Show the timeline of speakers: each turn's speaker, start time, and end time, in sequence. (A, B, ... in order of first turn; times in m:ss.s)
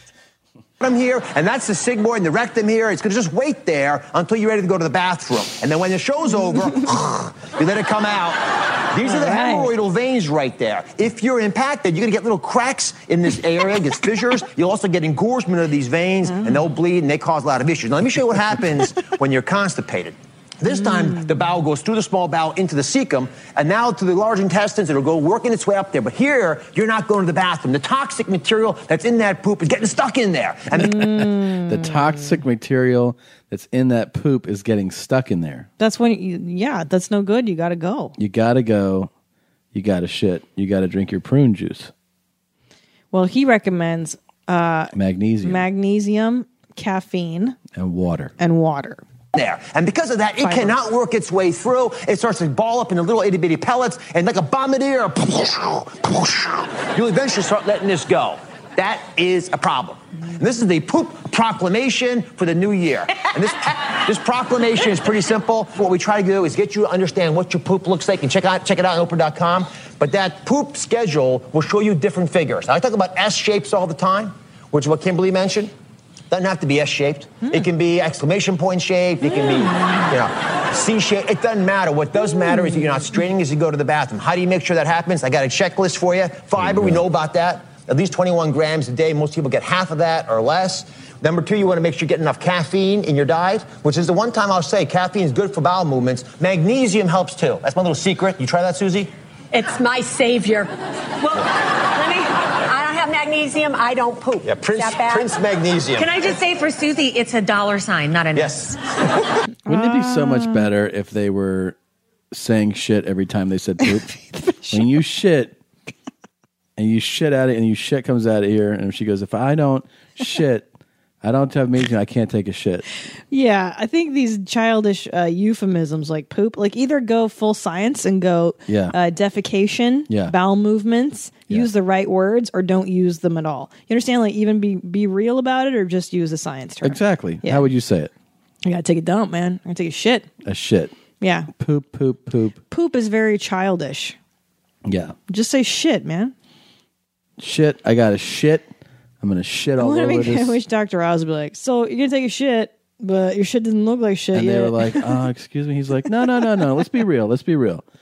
0:00.8-0:31.0 A
0:09.0-0:09.7 B
0:16.3-0:16.6 B
0:20.9-0:21.3 B
0:30.8-0:32.4 B
0:30.9-0:35.7 C
0:35.8-0:38.2 B
0:38.2-0:39.1 C
0:39.7-0:41.9 C
0:43.1-0:47.6 B
0:44.9-0:45.6 C
0:47.8-0:48.3 C
0:48.4-0:49.0 B
0:49.4-1:15.7 A
0:50.4-0:50.7 B
1:16.3-1:39.1 A
1:19.7-1:20.0 B
1:26.6-1:27.0 C
1:39.5-1:40.7 D
1:42.7-1:45.2 D
1:44.4-1:46.1 A
1:46.0-1:48.8 E
1:48.4-1:48.7 A
1:49.7-1:50.7 B
1:49.7-1:51.8 C
1:52.3-1:54.1 C
1:54.4-1:54.9 B
1:54.7-1:55.6 C
1:56.8-2:00.7 C
2:01.2-2:02.8 C
2:03.3-2:17.7 B
2:08.7-2:09.0 C
2:10.1-2:10.3 C
2:16.8-2:18.1 C
2:18.6-2:20.3 B
2:20.4-2:20.9 C
2:21.2-2:21.5 B
2:21.5-2:22.6 C
2:22.7-2:24.2 B
2:24.8-2:25.2 C
2:25.3-2:26.3 B
2:27.4-2:28.7 C
2:29.2-2:30.6 C
2:29.8-2:35.1 B
2:34.3-2:37.8 C